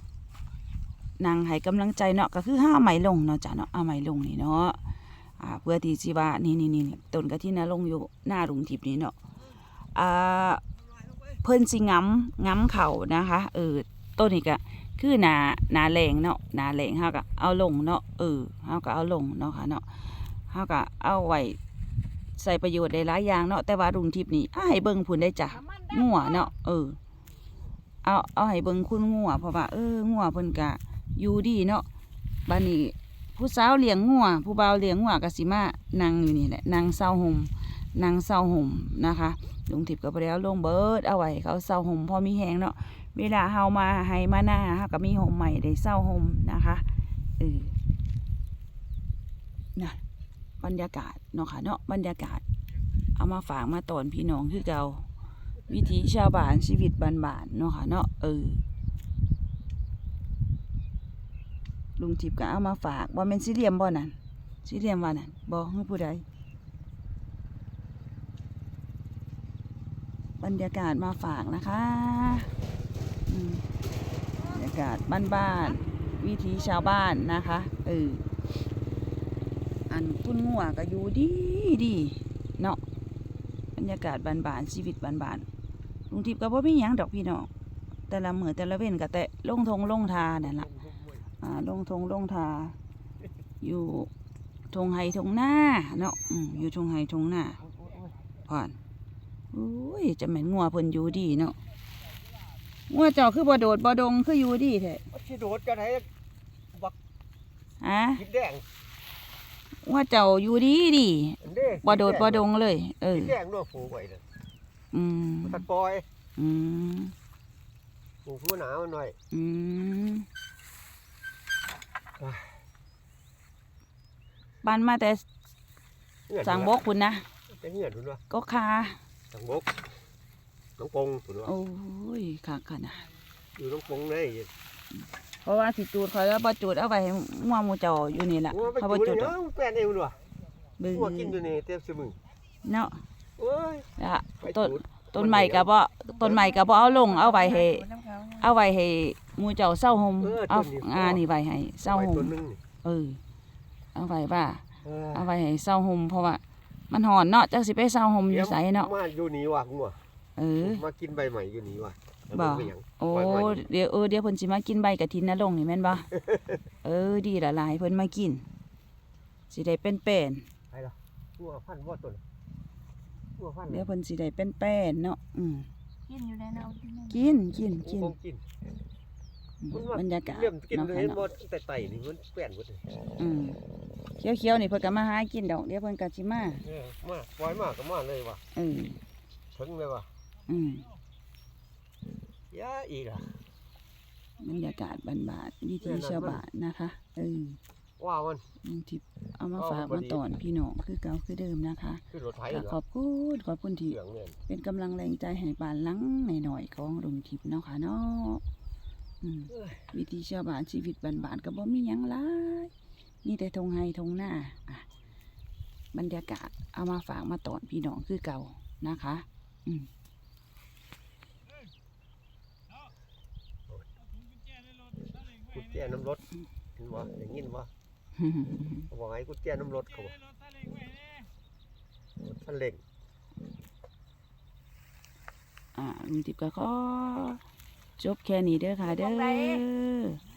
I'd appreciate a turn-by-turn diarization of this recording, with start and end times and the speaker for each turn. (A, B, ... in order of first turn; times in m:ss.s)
0:01.2-0:04.8 A
0:05.4-0:09.2 A
0:09.9-0:10.6 A
0:11.2-0:21.6 A
0:22.4-0:27.0 A
0:28.0-0:31.8 A
0:32.4-0:46.8 A
0:47.4-0:47.8 A
0:49.7-0:50.0 A
0:50.6-0:52.4 A
0:53.2-0:55.1 A
0:55.7-0:58.6 A
1:02.0-1:06.2 A
1:10.4-1:12.5 A
1:13.3-1:13.6 A
1:14.4-1:18.3 A
1:19.9-1:22.8 A
1:23.8-1:25.4 A
1:26.1-1:27.5 A
1:28.1-1:30.7 A
1:30.2-1:31.2 B
1:31.4-1:32.8 A
1:33.6-1:34.1 A
1:34.7-1:37.6 A
1:37.6-1:38.2 B
1:38.4-1:38.8 A
1:39.5-1:41.6 A
1:42.9-1:45.1 A
1:45.1-1:46.1 B
1:47.8-1:48.2 A
1:48.2-1:48.6 B
1:49.8-1:53.3 A
1:51.4-1:52.5 B
1:53.1-1:54.2 B
1:54.9-1:55.6 A
1:55.4-1:56.0 B
1:56.4-1:57.1 A
1:58.2-1:59.2 B
1:59.3-2:00.3 A
2:02.2-2:02.6 B
2:04.6-2:05.2 A
2:06.3-2:06.8 B
2:06.4-2:07.2 A
2:07.5-2:08.2 B
2:08.3-2:09.0 A
2:09.3-2:09.7 B
2:10.8-2:11.5 B
2:11.4-2:13.1 A
2:13.6-2:14.5 B
2:15.4-2:19.3 A
2:18.5-2:20.2 B
2:20.8-2:21.4 A
2:20.9-2:22.2 B
2:22.6-2:23.0 A
2:23.4-2:23.9 B
2:24.0-2:33.2 A
2:24.4-2:25.7 B
2:26.3-2:28.4 C
2:30.2-2:31.2 B
2:31.8-2:32.6 B
2:33.9-2:38.9 A
2:34.8-2:35.3 B
2:38.3-2:40.0 B
2:40.4-2:40.8 A
2:40.6-2:43.6 B
2:42.3-2:46.1 A
2:46.1-2:46.6 B
2:46.8-2:48.4 A
2:49.5-2:50.5 A
2:50.7-2:52.2 B
2:53.4-2:53.9 B
2:53.7-2:55.7 A
2:56.1-2:57.3 C
2:57.1-2:58.1 A
2:57.8-2:58.4 B
2:59.6-3:01.3 A
2:59.7-3:02.8 B
3:03.2-3:03.6 A
3:04.2-3:06.6 A
3:06.6-3:08.4 B
3:08.5-3:09.0 A
3:09.5-3:10.1 B
3:10.5-3:10.9 A
3:12.5-3:13.4 B
3:14.4-3:17.6 A
3:15.8-3:16.4 B
3:18.0-3:18.4 B
3:18.6-3:28.4 A
3:19.6-3:20.3 B
3:22.1-3:22.8 B
3:23.9-3:24.4 B
3:29.2-3:32.7 A
3:29.5-3:29.9 B
3:33.2-3:34.8 A
3:35.9-3:39.9 A
3:45.4-3:46.2 B
3:46.8-3:47.7 B
3:48.2-3:48.9 A
3:48.9-3:50.2 B
3:52.4-3:52.8 B
3:55.7-3:57.4 A
3:58.0-4:00.2 A
3:59.1-3:59.6 C